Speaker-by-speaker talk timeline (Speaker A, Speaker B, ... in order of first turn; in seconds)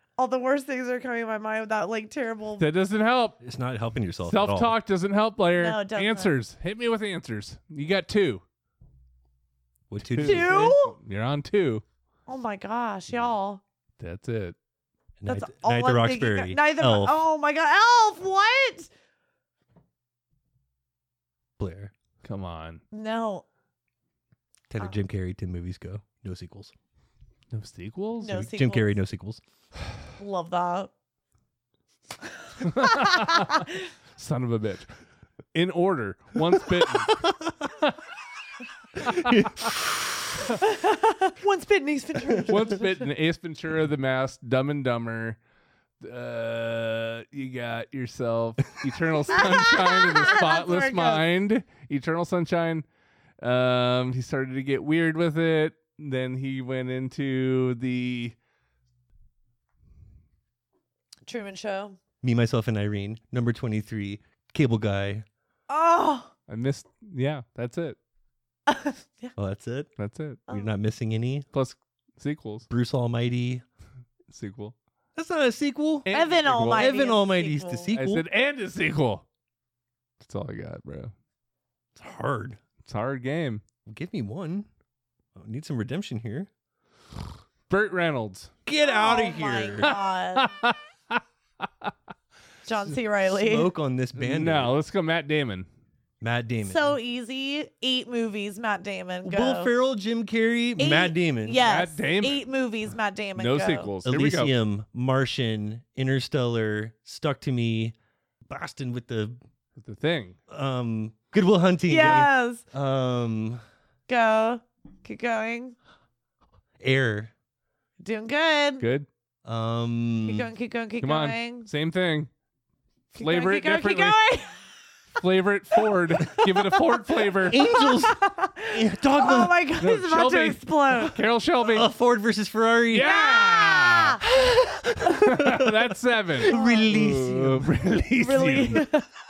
Speaker A: 0.2-2.6, 5.6-6.3, 10.2-11.0, 12.3-13.6, 15.2-18.9, 22.9-23.4, 28.2-29.0, 30.2-30.9, 32.6-33.8, 40.6-43.0, 49.3-51.2, 61.3-62.0, 65.7-66.3, 68.7-69.3, 76.1-77.9, 88.8-90.5, 92.7-93.7, 96.6-99.7, 100.8-103.9, 111.9-112.6, 114.1-115.8, 118.0-118.9, 120.3-121.7, 123.2-124.7, 126.2-131.2, 133.0-134.2, 136.5-136.9, 138.2-139.1
Speaker B: 2.6-3.4, 4.2-8.4, 10.1-11.8, 14.0-14.6, 22.2-22.8, 27.5-28.5, 32.6-34.9, 35.5-37.2, 39.0-39.4, 42.5-45.4, 46.0-52.9, 53.4-58.4, 66.5-68.0, 70.0-70.4, 71.5-72.7, 74.3-74.8, 76.1-77.1, 77.9-79.2, 80.2-81.1, 82.8-83.6, 87.7-88.5, 89.8-91.2, 94.2-95.7, 101.6-102.5, 103.4-104.5, 109.8-110.4, 118.8-119.1, 121.0-122.3, 123.2-124.2, 125.2-127.6, 129.8-131.9, 132.9-134.2, 135.1-138.9
Speaker C: 3.4-4.8, 9.9-10.7, 15.2-17.3, 21.6-21.9, 24.7-26.7, 28.2-29.4, 37.0-37.6, 39.1-40.2, 62.2-65.3, 69.4-69.9, 70.5-71.5, 72.7-73.6, 75.2-76.1, 76.7-78.2, 82.0-82.6, 83.9-84.7, 85.4-86.5, 88.7-89.9, 93.2-94.7, 96.2-97.0, 99.2-101.6, 104.0-108.0, 108.5-109.4, 110.5-113.6, 116.8-117.3, 119.5-120.5, 127.5-129.6, 131.7-133.1, 135.0-135.7, 136.4-137.7